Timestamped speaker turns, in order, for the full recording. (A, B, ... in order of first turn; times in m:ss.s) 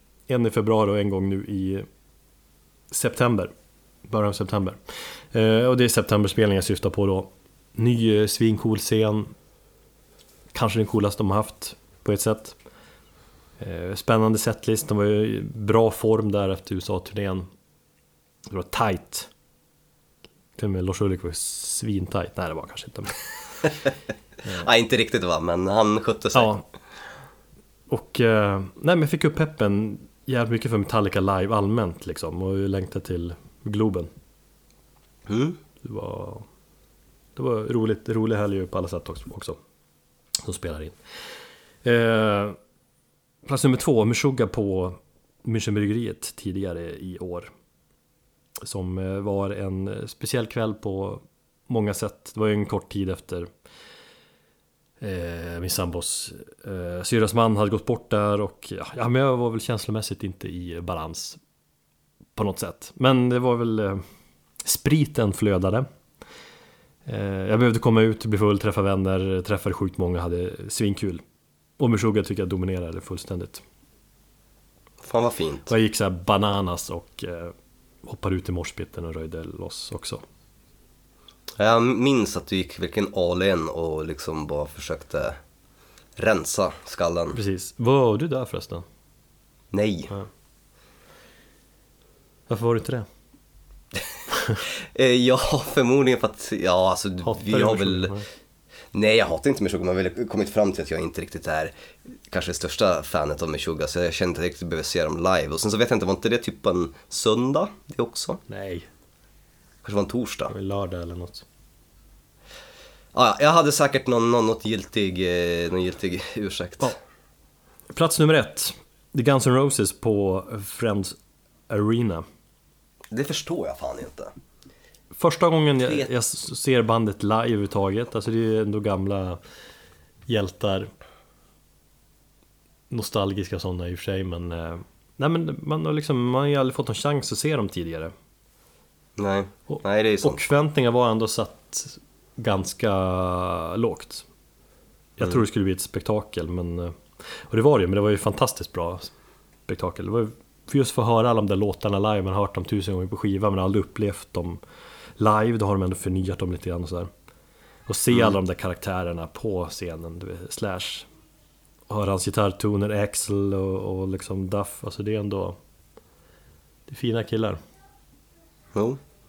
0:00.3-0:01.8 A
0:02.9-0:03.5 A
0:04.0-0:09.3 A
0:10.5-0:12.6 A
0:13.6-0:17.5 A
0:18.4-0:19.3 A
0:20.6-0:23.2 A
0:24.5-0:26.5 B
0:26.3-0:26.6 A
0:27.9-0:34.1 A
0:35.3-0:35.6 B
0:35.8-0:36.4 A
0:37.4-0:39.6 A
0:40.4-0:41.0 A
0:41.8-0:42.6 A
0:43.4-0:47.5 A
0:48.6-0:53.5 A
0:55.0-1:01.4 A
1:02.4-1:04.0 A
1:04.6-1:05.9 A
1:07.0-1:11.2 A
1:11.8-1:13.6 A
1:15.0-1:15.7 B
1:15.7-1:20.2 A
1:21.6-1:25.4 B
1:26.2-1:27.4 B
1:27.3-1:28.8 A
1:29.7-1:30.1 B
1:32.5-1:33.1 A
1:34.5-1:38.2 B
1:37.2-1:38.2 A
1:38.9-1:41.7 B
1:42.3-1:48.4 B
1:48.5-1:48.9 A
1:49.8-1:50.5 B
1:50.5-1:51.4 A
1:53.1-1:57.0 B
1:57.9-2:01.2 A
2:01.7-2:02.2 A
2:03.1-2:04.3 B
2:05.1-2:09.4 A
2:10.3-2:10.9 A
2:12.9-2:18.1 A
2:19.2-2:20.5 B
2:19.7-2:24.2 A
2:25.2-2:29.1 A
2:29.7-2:34.6 A
2:35.2-2:37.1 A
2:37.9-2:41.1 A
2:41.9-2:45.6 A
2:46.9-2:47.6 A